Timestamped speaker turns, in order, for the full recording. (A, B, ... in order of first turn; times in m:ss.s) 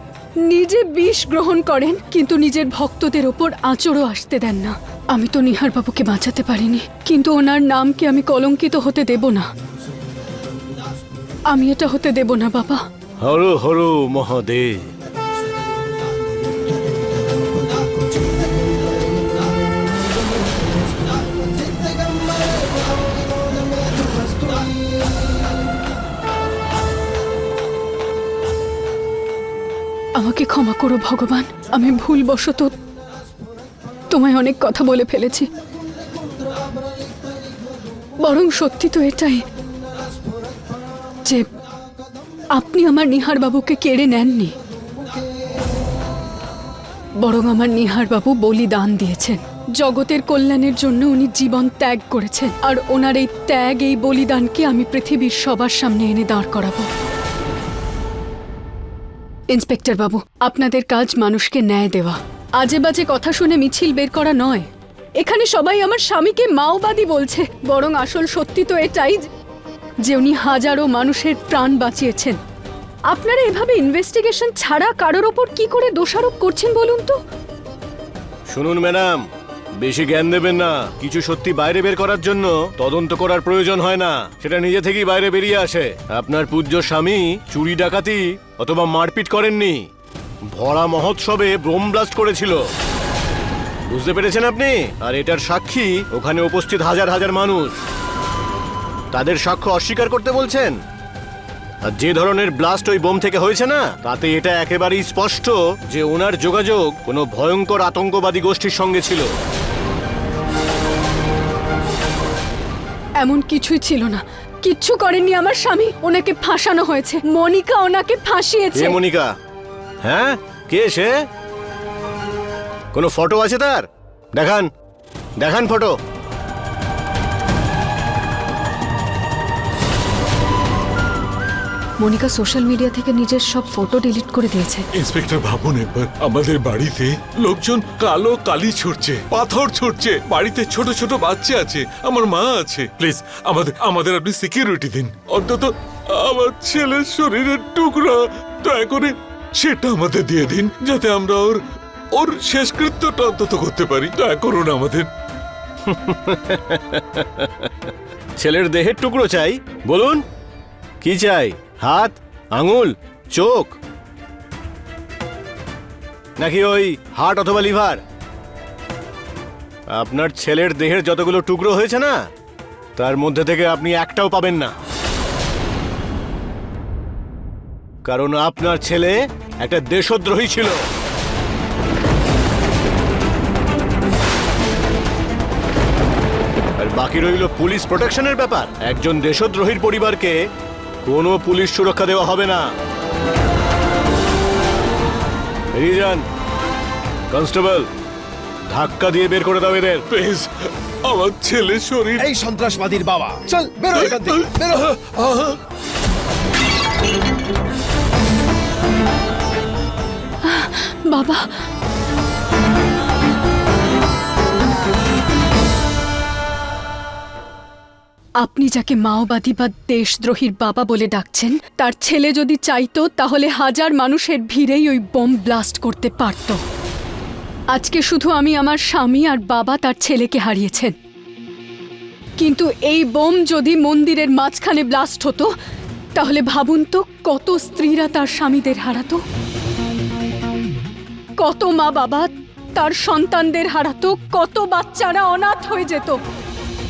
0:00.4-0:09.5 A
0:11.5-0:12.8 A
0:13.2-0:14.9 B
0:30.2-0:32.7 A
0:34.1-0:35.5 A
0:38.2-0:39.4 A
0:42.5-0:44.6 A
0:47.2-0:56.9 A
0:59.5-1:04.7 A
1:05.2-1:09.3 A
1:10.0-1:12.4 A
1:13.1-1:17.2 A
1:18.5-1:19.2 B
1:19.8-1:29.9 B
1:30.5-1:32.6 B
1:33.9-1:37.8 B
1:39.1-1:40.8 B
1:41.9-1:49.3 B
1:53.2-1:59.0 A
1:58.8-1:59.3 B
2:00.0-2:01.3 B
2:02.9-2:04.7 B
2:05.4-2:06.0 B
2:12.0-2:14.9 A
2:15.0-2:31.6 C
2:32.2-2:35.1 C
2:35.9-2:40.2 B
2:41.0-2:43.8 B
2:46.4-2:48.0 B
2:49.9-2:52.2 B
2:53.0-2:54.8 B
2:58.1-3:00.8 B
3:06.8-3:10.4 B
3:11.0-3:12.7 B
3:15.8-3:16.2 B
3:17.3-3:17.9 B
3:18.7-3:20.0 B
3:20.1-3:20.5 C
3:21.1-3:22.3 C
3:22.2-3:24.8 D
3:24.0-3:25.6 C
3:30.5-3:31.5 A
3:38.4-3:46.6 A
3:47.7-3:50.9 A
3:52.4-3:55.5 A
3:56.2-3:59.2 A
4:01.4-4:06.2 A